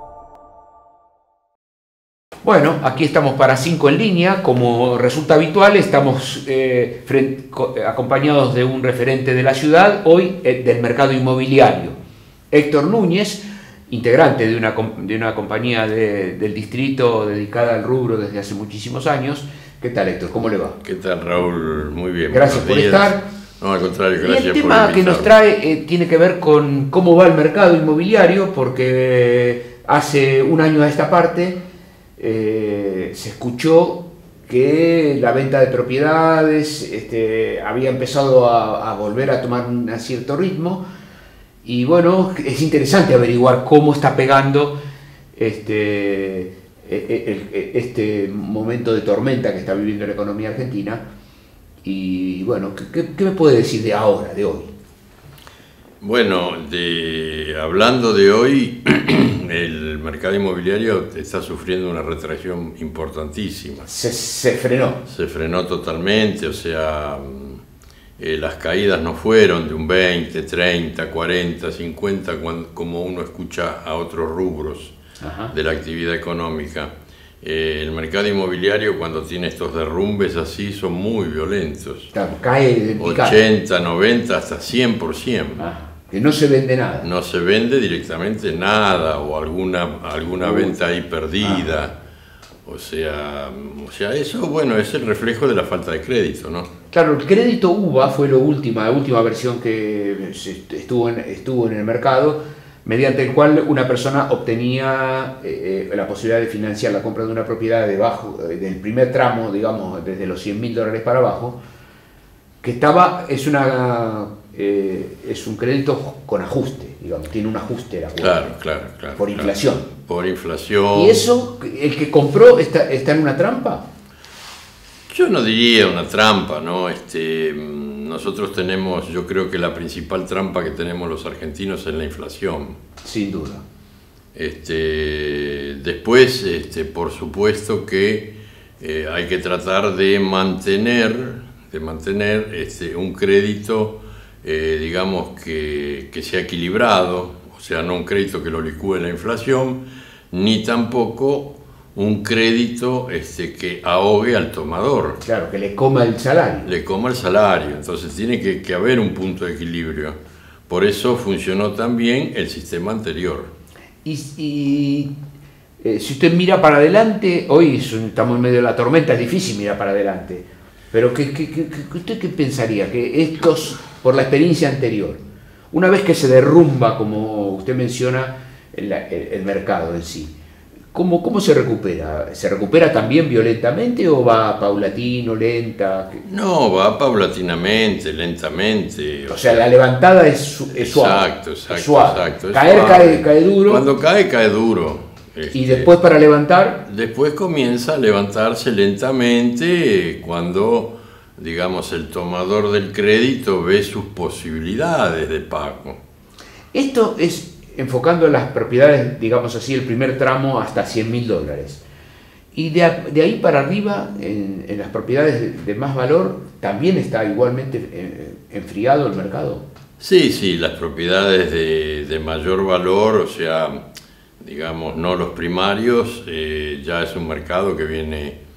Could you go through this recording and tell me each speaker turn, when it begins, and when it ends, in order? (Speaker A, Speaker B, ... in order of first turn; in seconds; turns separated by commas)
Speaker A: 2.4-12.0, Speaker A: 12.5-20.8, Speaker B: 20.8-25.3, Speaker A: 22.3-23.2, Speaker A: 24.2-31.6, Speaker A: 32.2-40.8, Speaker A: 41.6-44.7, Speaker A: 45.4-51.0, Speaker A: 51.8-54.7, Speaker B: 56.0-63.9, Speaker A: 63.9-65.0, Speaker B: 65.0-67.6, Speaker B: 68.2-74.9, Speaker A: 75.2-75.5, Speaker B: 75.5-82.1, Speaker A: 82.1-83.4, Speaker B: 83.0-85.6, Speaker A: 85.6-87.1, Speaker B: 87.0-92.0, Speaker A: 90.4-90.7, Speaker A: 91.4-91.7, Speaker B: 92.7-96.7, Speaker A: 96.9-111.6, Speaker A: 112.6-118.5, Speaker B: 118.2-121.2, Speaker A: 119.2-119.9, Speaker A: 120.9-123.8, Speaker B: 125.1-132.8, Speaker A: 133.0-133.6, Speaker B: 134.3-155.2, Speaker A: 155.2-156.7, Speaker B: 156.6-160.2, Speaker B: 160.7-163.5, Speaker A: 164.0-165.1, Speaker A: 165.8-175.2, Speaker A: 175.7-180.3, Speaker A: 180.9-186.2, Speaker B: 186.2-189.6, Speaker A: 189.3-193.8, Speaker B: 190.7-195.9, Speaker A: 195.5-196.8, Speaker B: 196.9-206.0, Speaker A: 206.7-211.8, Speaker A: 212.5-219.6, Speaker B: 220.0-223.8, Speaker B: 224.4-228.4